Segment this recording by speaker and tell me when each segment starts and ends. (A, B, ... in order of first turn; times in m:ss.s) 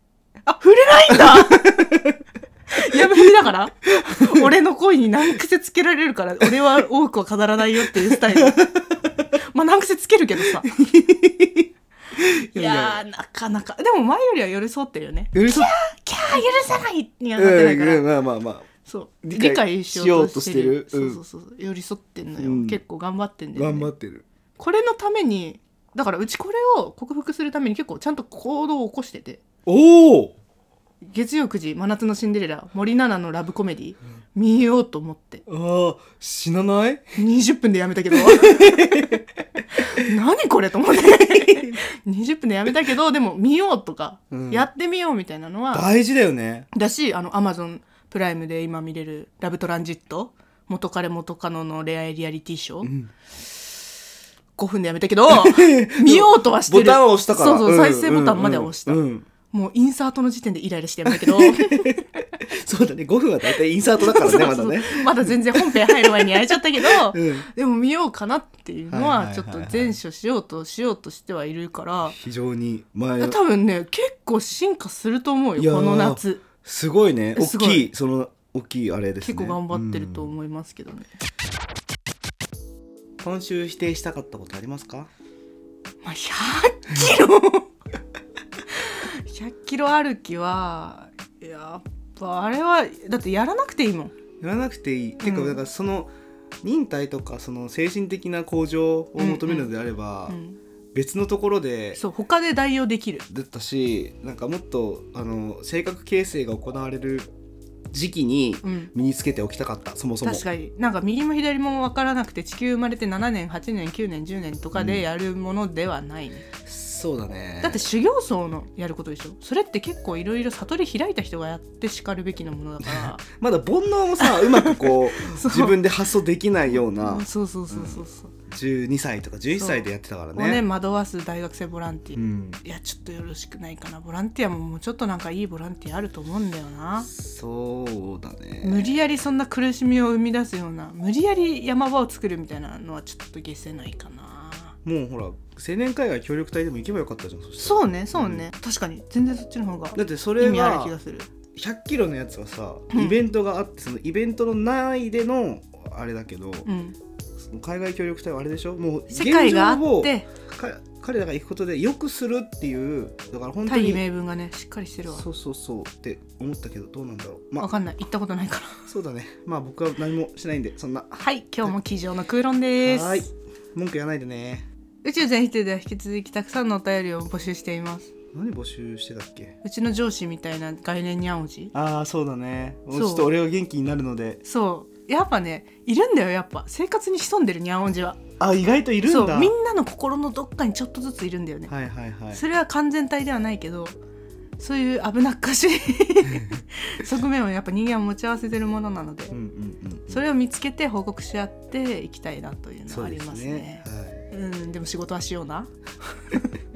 0:00.4-0:01.9 A
0:01.2-0:02.1 B
0:02.7-0:08.6 A
0:08.1-0:09.0 B
0:09.4-0:10.7 A
0:10.6-0:13.0 B
0:12.5-0:18.0 A
0:15.3-0:15.7 B
0:17.4-0:18.7 B
0:18.8-0:23.9 A
0:19.2-0:21.2 B
0:22.4-0:22.8 B
0:23.6-0:24.2 B
0:24.6-0:29.4 A
0:29.6-0:30.3 B
0:31.0-0:35.4 A
0:35.4-0:37.1 B
0:37.2-0:39.2 A
0:38.1-0:39.2 B
0:39.7-0:45.8 A
0:41.4-0:41.8 B
0:44.3-0:44.7 B
0:45.7-0:46.7 B
0:46.7-0:52.9 A
0:52.8-0:53.1 B
0:54.6-1:02.0 A
0:55.3-0:59.3 B
1:01.0-1:07.5 B
1:04.0-1:12.2 A
1:08.9-1:10.0 B
1:12.1-1:13.4 B
1:13.2-1:16.4 A
1:15.6-1:20.3 B
1:17.3-1:17.9 A
1:19.2-1:21.1 A
1:23.2-1:25.1 B
1:26.0-1:27.7 A
1:28.8-1:34.1 A
1:34.4-1:36.1 B
1:35.2-1:35.6 A
1:36.6-1:40.4 B
1:39.2-1:39.7 A
1:40.3-1:40.6 A
1:40.9-1:42.0 B
1:42.0-1:43.2 A
1:43.3-1:47.3 B
1:47.9-1:50.4 B
1:48.6-1:48.9 A
1:50.2-1:56.4 A
1:54.7-1:55.0 B
1:56.6-1:57.8 B
1:57.6-2:03.2 A
2:02.8-2:10.6 B
2:04.2-2:05.8 A
2:06.7-2:08.3 A
2:09.5-2:17.1 A
2:12.2-2:12.6 B
2:17.0-2:18.9 B
2:18.6-2:24.7 A
2:24.8-2:28.5 B
2:27.6-2:31.3 A
2:29.9-2:31.0 B
2:31.5-2:36.7 B
2:32.9-2:33.2 A
2:36.6-2:37.0 A
2:37.4-2:44.0 B
2:39.1-2:40.3 A
2:43.6-2:45.2 A
2:45.1-2:47.7 B
2:47.6-2:48.8 A
2:48.9-2:51.7 B
2:51.2-2:53.3 A
2:52.8-2:54.7 B
2:55.0-2:58.1 A
2:58.3-2:59.6 B
2:59.6-3:01.7 A
3:01.7-3:04.4 B
3:02.9-3:03.3 A
3:04.4-3:08.2 A
3:08.4-3:09.5 B
3:09.0-3:11.7 A
3:11.7-3:12.4 B
3:12.3-3:14.0 A
3:14.6-3:19.4 A
3:19.3-3:20.2 B
3:20.1-3:25.7 A
3:22.9-3:24.2 B